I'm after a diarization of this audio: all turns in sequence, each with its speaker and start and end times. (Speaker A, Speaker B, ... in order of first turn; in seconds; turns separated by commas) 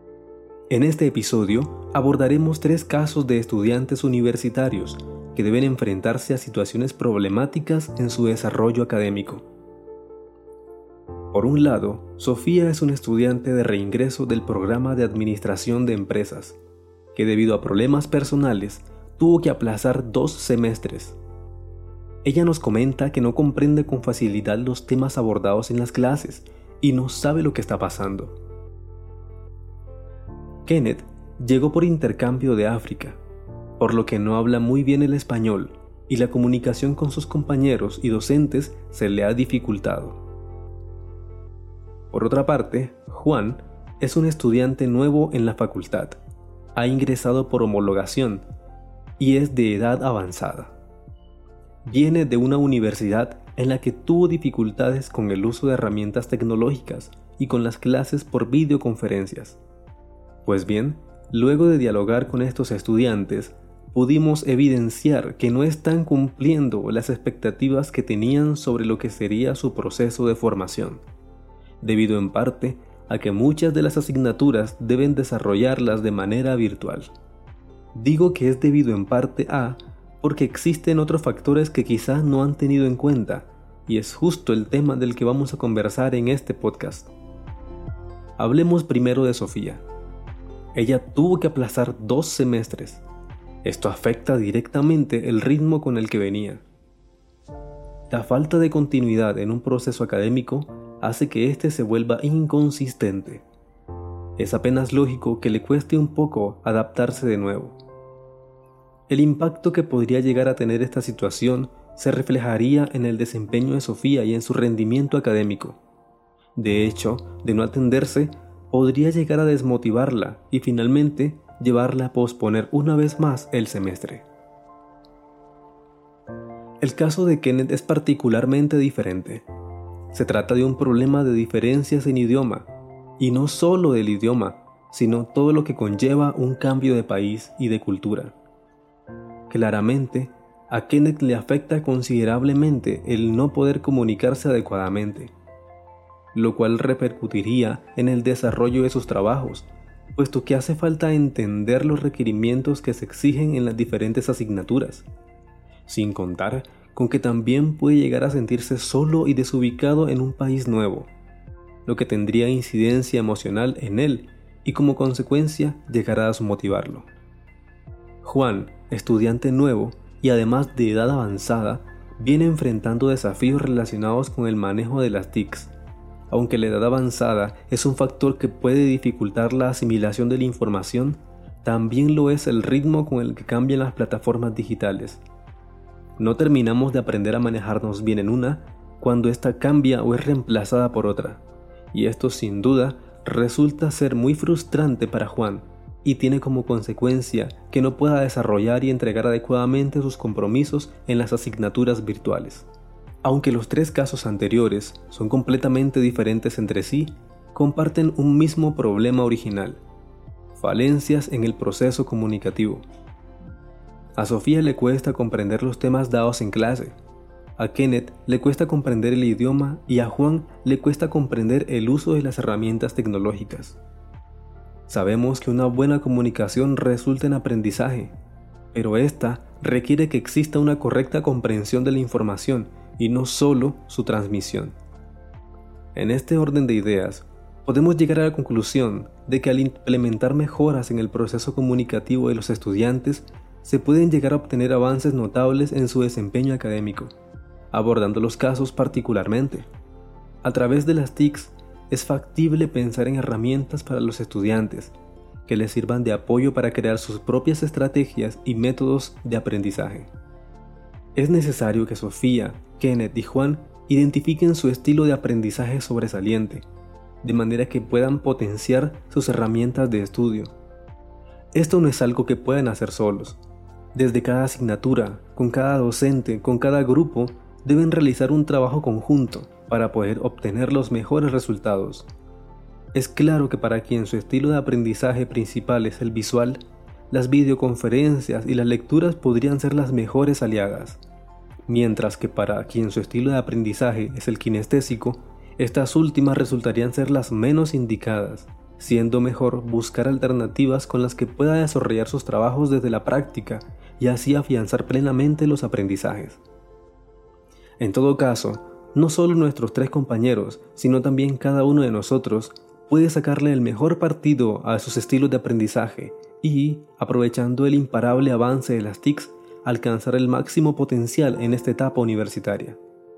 Speaker A: 0.7-9.5, Speaker A: 11.3-16.6, Speaker A: 17.1-21.2, Speaker A: 22.2-28.4, Speaker A: 30.6-33.2, Speaker A: 33.8-40.2, Speaker A: 42.1-46.2, Speaker A: 46.8-48.5, Speaker A: 49.2-50.7, Speaker A: 51.8-59.6, Speaker A: 60.5-71.0, Speaker A: 71.8-77.1, Speaker A: 77.9-87.1, Speaker A: 88.4-89.8, Speaker A: 90.7-93.0, Speaker A: 93.6-96.6, Speaker A: 98.1-103.5, Speaker A: 104.4-107.8, Speaker A: 109.1-115.8, Speaker A: 116.6-124.2, Speaker A: 126.8-129.5, Speaker A: 130.1-132.7, Speaker A: 133.2-138.3, Speaker A: 139.5-145.3, Speaker A: 146.3-155.1, Speaker A: 155.9-161.1, Speaker A: 161.9-167.1, Speaker A: 168.2-175.7, Speaker A: 176.3-185.2, Speaker A: 186.2-191.4, Speaker A: 191.9-202.7, Speaker A: 203.2-209.8, Speaker A: 210.6-212.8, Speaker A: 214.2-217.0, Speaker A: 217.6-223.8, Speaker A: 224.9-228.1, Speaker A: 228.7-234.8, Speaker A: 235.9-247.1, Speaker A: 247.7-249.7, Speaker A: 250.4-254.9, Speaker A: 255.5-260.1, Speaker A: 261.1-266.6, Speaker A: 267.2-270.5, Speaker A: 271.5-273.4, Speaker A: 273.9-282.1, Speaker A: 282.9-286.6, Speaker A: 287.1-291.0, Speaker A: 291.7-306.4, Speaker A: 307.8-322.8